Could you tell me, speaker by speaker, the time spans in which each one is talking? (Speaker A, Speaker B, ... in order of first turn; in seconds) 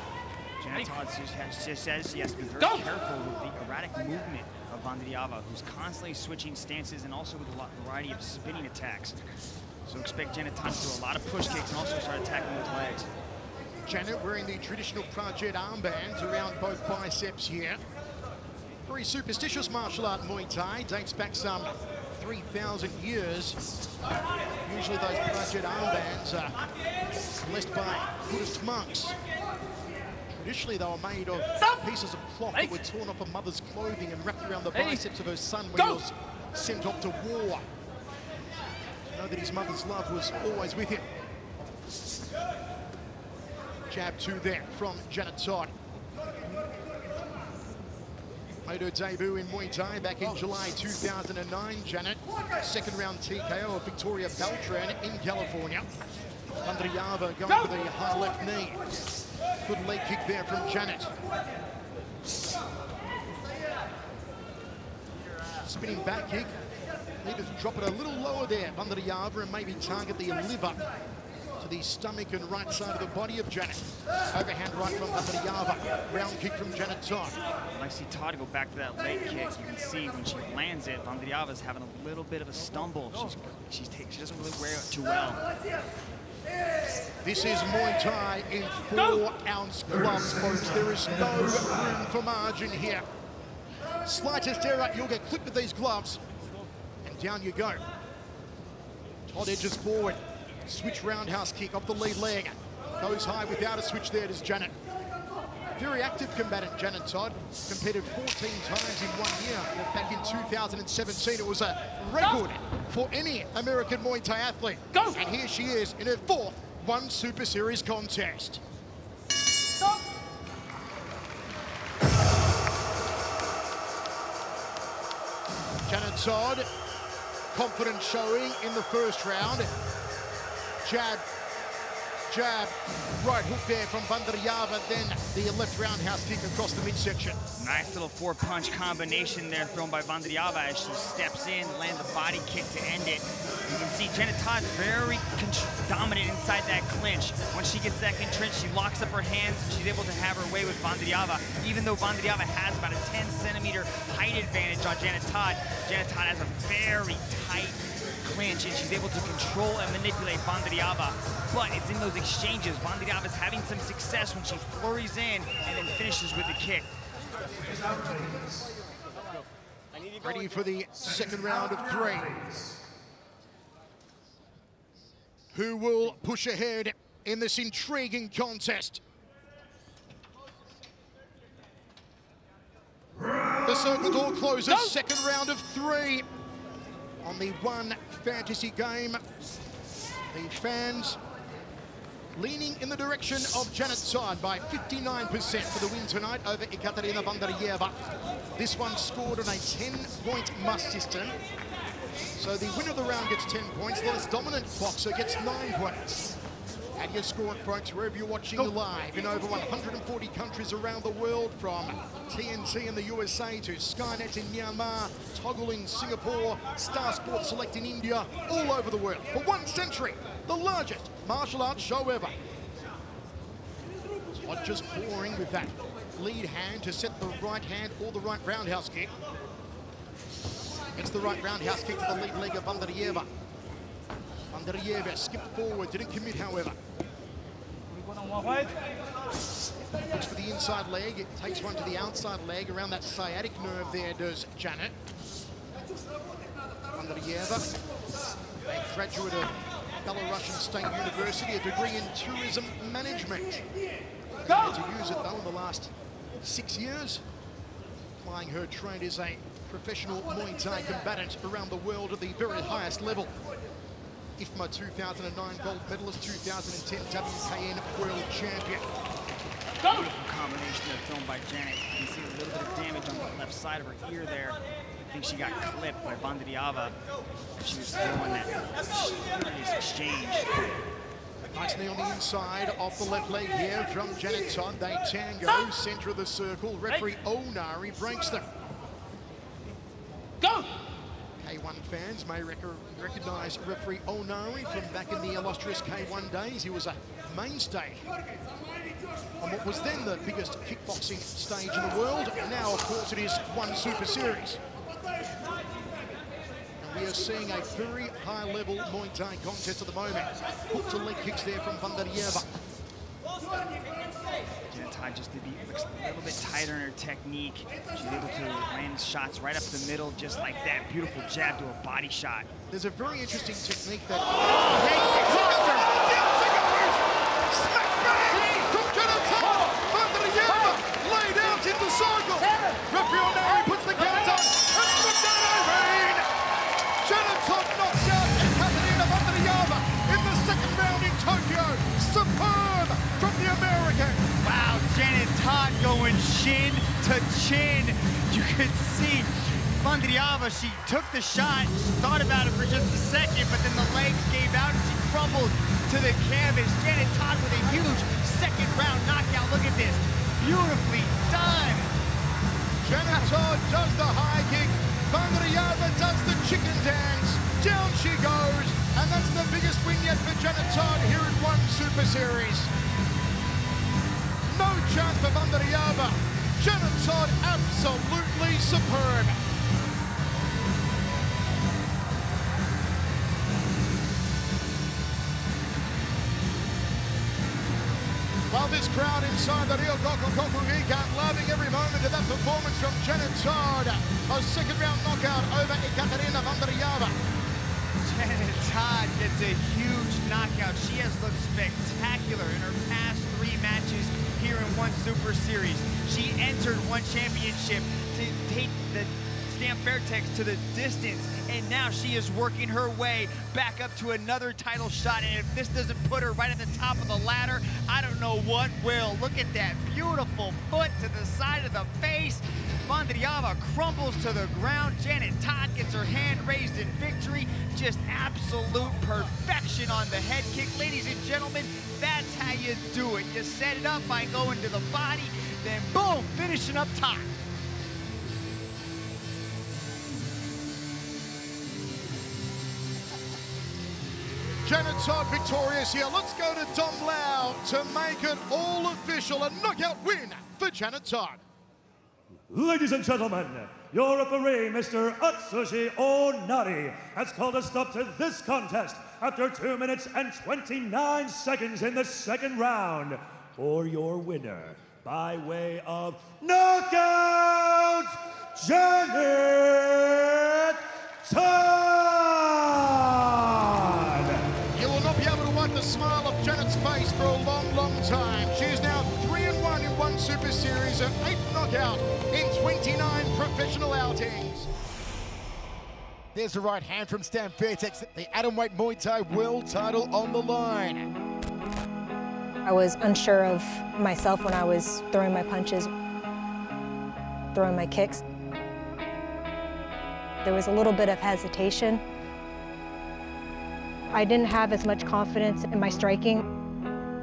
Speaker A: 0.6-9.2, 9.8-13.1, 77.7-85.4, 137.6-166.9, 269.9-276.9, 277.6-280.8, 314.7-322.5, 324.7-325.6, 344.4-361.9, 398.0-437.3
Speaker B: 13.8-17.8, 18.8-23.6, 24.6-26.7, 27.3-29.1, 30.3-37.7, 39.0-41.1, 43.9-45.7, 48.6-55.9, 56.6-58.9, 59.6-61.1, 65.6-66.5, 67.2-70.9, 71.6-77.4, 87.2-93.0, 94.0-96.2, 97.0-97.9, 99.3-104.7, 105.7-118.6, 125.8-126.7, 127.5-129.7, 130.8-131.2, 132.3-137.4, 170.2-172.6, 175.5-179.0, 183.6-186.3, 187.2-189.2, 190.3-191.2, 192.3-198.0, 198.6-201.4, 202.3-206.4, 206.9-222.3, 224.3-229.1, 230.9-233.3, 234.5-236.8, 240.0-244.9, 246.9-247.7, 248.7-253.7, 254.4-257.2, 258.2-263.3, 264.4-268.9, 281.5-288.5, 291.4-298.1, 299.4-304.6, 306.8-312.5, 322.7-336.3, 337.0-344.2, 362.8-372.7, 374.5-379.4, 388.5-397.2, 444.6-451.4, 474.7-484.7, 486.3-491.1
Speaker C: 452.5-474.4
Speaker D: 492.6-495.9, 497.5-498.2, 500.4-502.0, 504.1-506.5